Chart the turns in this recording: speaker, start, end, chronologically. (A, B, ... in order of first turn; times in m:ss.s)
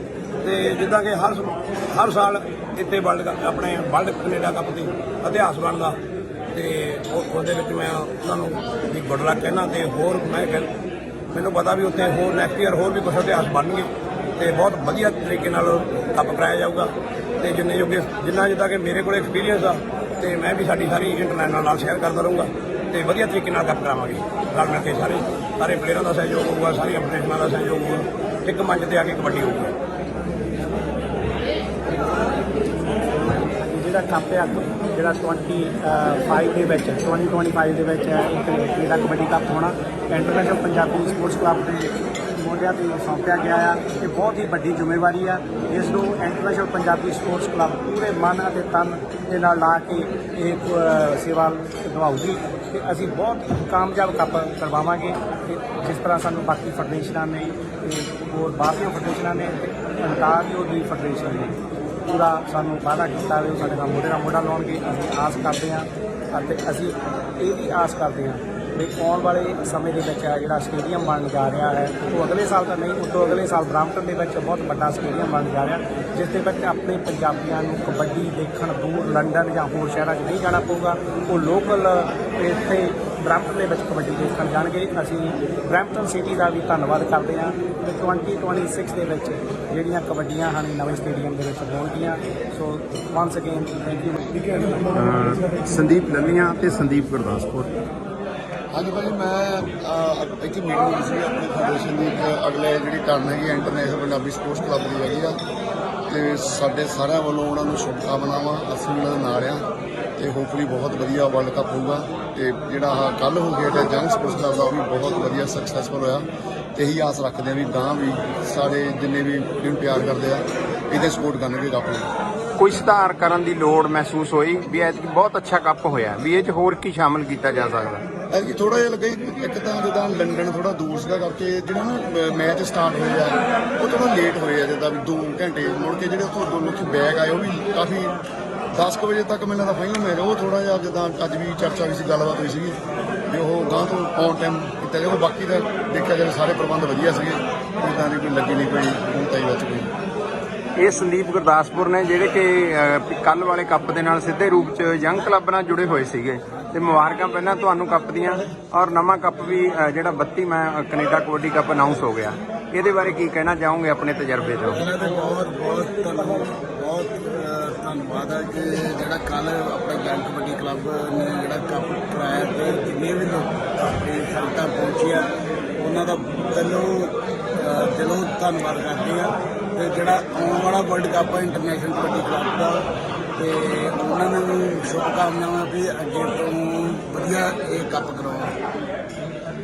0:00.4-0:06.0 A
0:06.5-0:10.7 A
0:11.3-0:16.9 A
0:17.4-0:29.7 A
0:33.3-1:01.5 B
1:02.1-1:34.8 B
1:34.9-1:37.7 C
1:38.7-1:45.4 D
1:46.1-1:49.6 D
1:50.2-2:02.1 D
2:02.6-2:08.0 C
2:08.3-2:18.2 D
2:18.7-2:22.8 D
2:23.3-2:29.9 D
2:30.8-2:44.8 C
2:44.7-3:02.8 E
3:03.4-3:08.5 E